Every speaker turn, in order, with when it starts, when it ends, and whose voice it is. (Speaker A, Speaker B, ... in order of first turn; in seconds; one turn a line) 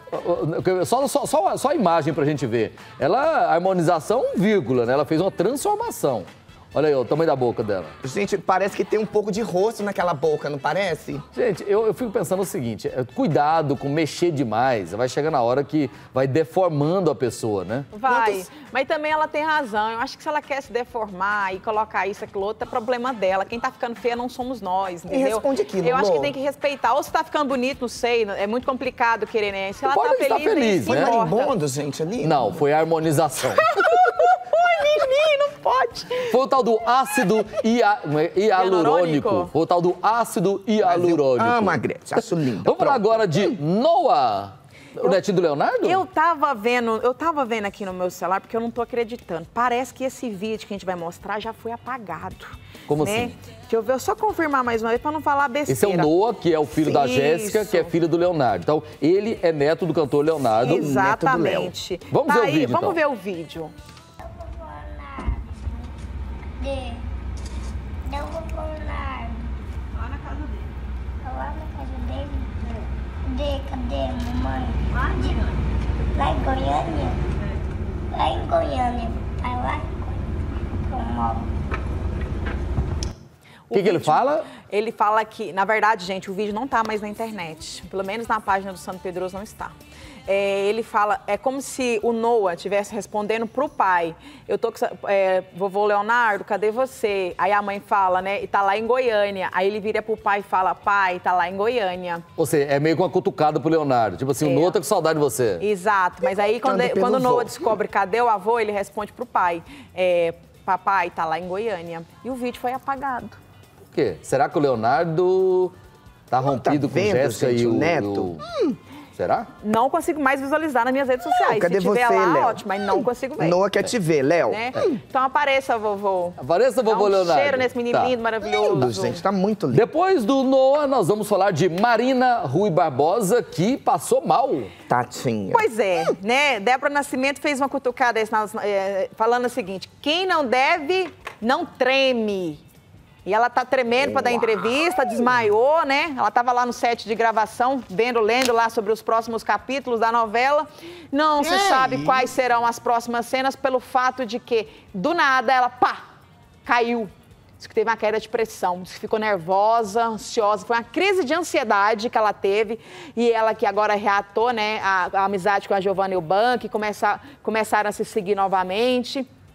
Speaker A: 0.1-8.0
Speaker B: 8.0-11.3
Speaker A: 11.3-18.3
Speaker C: 17.9-31.5
Speaker B: 25.1-26.3
Speaker A: 29.9-31.1
Speaker B: 30.9-32.6
Speaker A: 32.2-33.8
Speaker C: 33.6-36.4
Speaker A: 36.3-46.0
Speaker C: 38.5-39.5
Speaker B: 40.8-43.6
Speaker C: 45.8-56.1
Speaker A: 52.9-53.4
Speaker A: 55.7-60.9
Speaker C: 56.8-57.9
Speaker C: 60.6-63.7
Speaker B: 60.7-61.7
Speaker A: 62.1-63.0
Speaker D: 64.2-65.9
Speaker D: 66.6-67.1
Speaker D: 68.1-69.5
Speaker D: 71.2-75.5
Speaker D: 76.2-77.2
Speaker D: 78.1-80.2
Speaker D: 80.9-81.5
Speaker C: 83.7-89.8
Speaker A: 83.7-84.5
Speaker C: 90.3-102.2
Speaker A: 102.4-105.6
Speaker C: 104.4-104.8
Speaker C: 105.6-113.4
Speaker B: 106.2-107.8
Speaker A: 113.9-115.8
Speaker A: 116.3-118.5
Speaker B: 116.4-118.8
Speaker A: 119.2-119.5
Speaker C: 119.6-123.6
Speaker B: 121.3-122.6
Speaker B: 123.4-125.0
Speaker C: 124.5-129.2
Speaker A: 126.4-128.1
Speaker B: 128.5-129.9
Speaker A: 129.7-134.7
Speaker B: 134.9-135.7
Speaker C: 135.5-142.6
Speaker C: 143.2-156.0
Speaker B: 144.0-144.6
Speaker B: 151.4-152.3
Speaker C: 156.7-169.3